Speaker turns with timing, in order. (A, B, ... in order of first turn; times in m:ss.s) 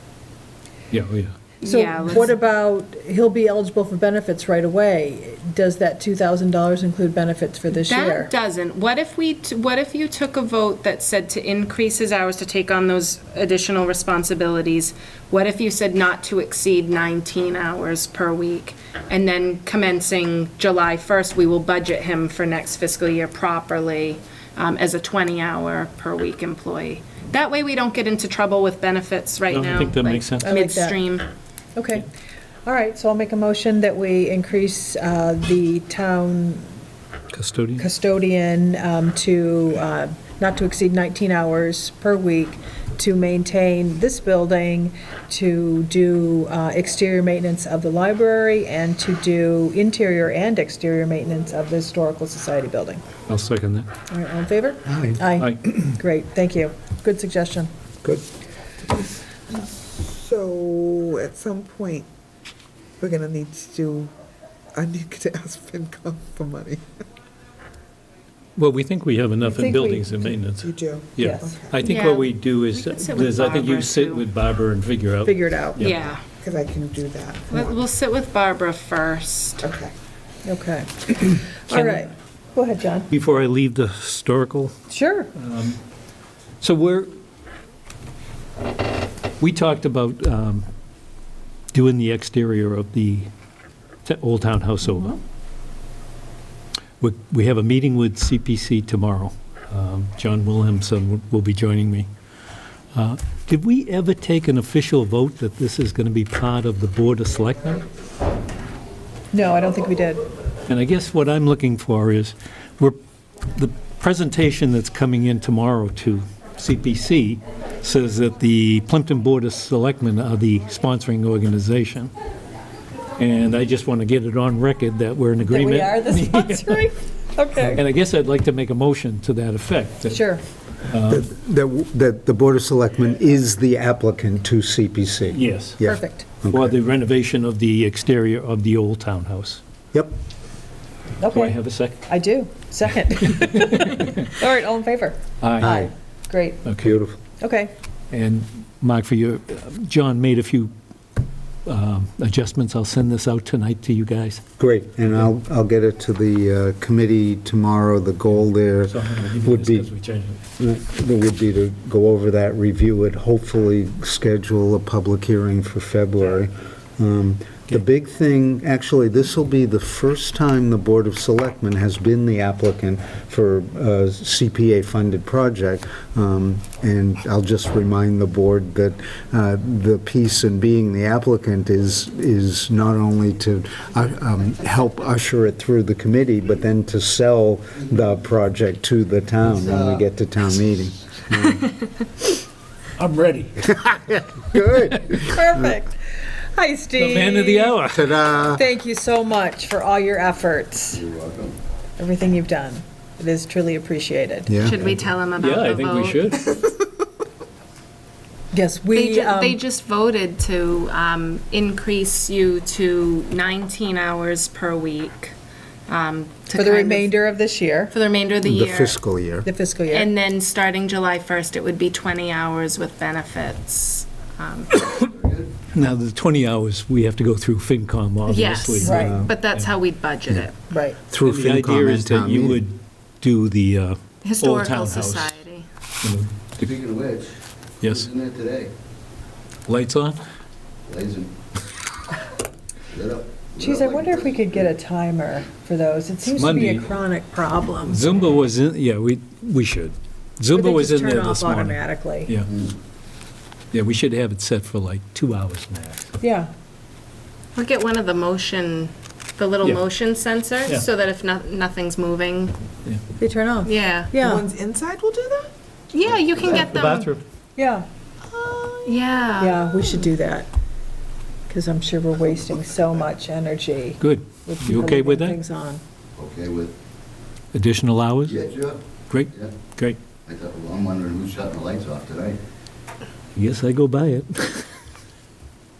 0:00.9-0:01.4 A
0:01.6-0:02.3 B
0:01.6-0:08.3 C
0:07.8-0:31.3 B
0:29.5-0:30.5 A
0:30.4-0:31.0 C
0:31.8-0:32.1 C
0:32.6-0:36.7 C
0:37.3-0:37.9 A
0:37.8-0:53.0 C
0:53.3-0:53.9 A
0:54.1-0:57.7 C
0:54.9-0:55.2 D
0:55.4-0:55.7 A
0:59.5-1:02.1 E
1:03.0-1:04.1 E
1:04.8-1:06.8 E
1:08.6-1:16.1 A
1:09.4-1:10.2 C
1:10.6-1:11.8 E
1:11.2-1:11.6 C
1:11.8-1:14.3 B
1:15.2-1:15.8 C
1:15.8-1:16.2 B
1:16.4-1:17.8 E
1:17.5-1:19.6 B
1:19.6-1:19.9 E
1:20.5-1:23.1 C
1:21.7-1:22.1 A
1:23.1-1:24.7 A
1:24.9-1:25.3 C
1:25.4-1:25.8 A
1:26.6-1:27.1 A
1:29.4-1:30.7 A
1:31.7-1:33.3 A
1:34.0-1:35.2 A
1:37.0-1:42.1 A
1:42.9-1:47.9 A
1:49.3-1:50.2 C
1:50.7-1:53.0 A
1:53.5-2:02.1 A
2:03.2-2:06.9 A
2:05.4-2:07.8 C
2:07.6-2:10.2 A
2:10.1-2:10.4 C
2:10.9-2:11.3 A
2:11.1-2:16.8 D
2:15.3-2:15.8 A
2:15.8-2:16.3 C
2:16.5-2:19.6 A
2:21.2-2:26.7 C
2:21.3-2:22.0 A
2:23.3-2:24.3 A
2:25.4-2:25.8 A
2:25.6-2:25.9 D
2:26.6-2:27.0 A
2:26.8-2:27.2 D
2:27.4-2:27.7 C
2:28.1-2:30.7 A
2:31.7-2:34.4 A
2:34.6-2:39.9 D
2:38.9-2:40.4 A
2:40.6-3:11.7 D
3:13.0-3:13.8 A
3:13.7-3:15.7 D
3:15.2-3:17.8 C
3:17.0-3:18.3 A
3:17.9-3:18.6 D
3:18.3-3:21.1 C
3:21.0-3:21.5 F
3:22.0-3:24.5 C
3:24.5-3:25.0 D
3:24.6-3:26.4 B
3:25.4-3:26.5 A
3:28.5-3:29.6 C
3:28.9-3:35.4 B
3:35.9-3:37.1 B
3:36.6-3:37.9 C
3:37.9-3:39.0 B
3:38.4-3:39.5 D
3:39.4-3:40.1 C
3:39.9-3:44.7 B
3:45.1-3:45.5 F
3:45.7-3:49.0 A
3:48.3-3:50.6 B
3:48.8-3:49.2 C
3:48.9-3:49.4 D
3:50.7-3:51.0 C
3:51.1-3:52.6 D
3:51.2-3:55.4 A
3:54.2-3:55.7 B
3:56.0-3:56.8 A
3:56.6-3:58.7 F
3:57.8-3:58.1 A
3:59.7-4:00.2 A
4:00.9-4:01.3 F
4:02.9-4:04.4 F
4:03.6-4:08.0 C
4:06.2-4:06.9 A
4:07.8-4:12.5 A
4:10.5-4:12.4 C
4:13.7-4:16.1 A
4:16.2-4:16.5 C
4:17.6-4:22.6 B
4:23.2-4:24.4 C
4:23.6-4:24.1 B
4:24.1-4:25.5 E
4:25.9-4:27.1 B
4:26.5-4:27.2 A
4:27.6-4:27.9 C
4:28.3-4:29.0 E
4:28.8-4:30.0 B
4:29.4-4:30.5 C
4:31.5-4:35.8 C
4:34.0-4:35.4 A
4:36.2-4:36.7 F
4:37.5-4:38.5 A
4:38.3-4:38.8 F
4:39.1-4:40.0 A
4:40.3-4:42.4 F
4:43.4-4:44.7 A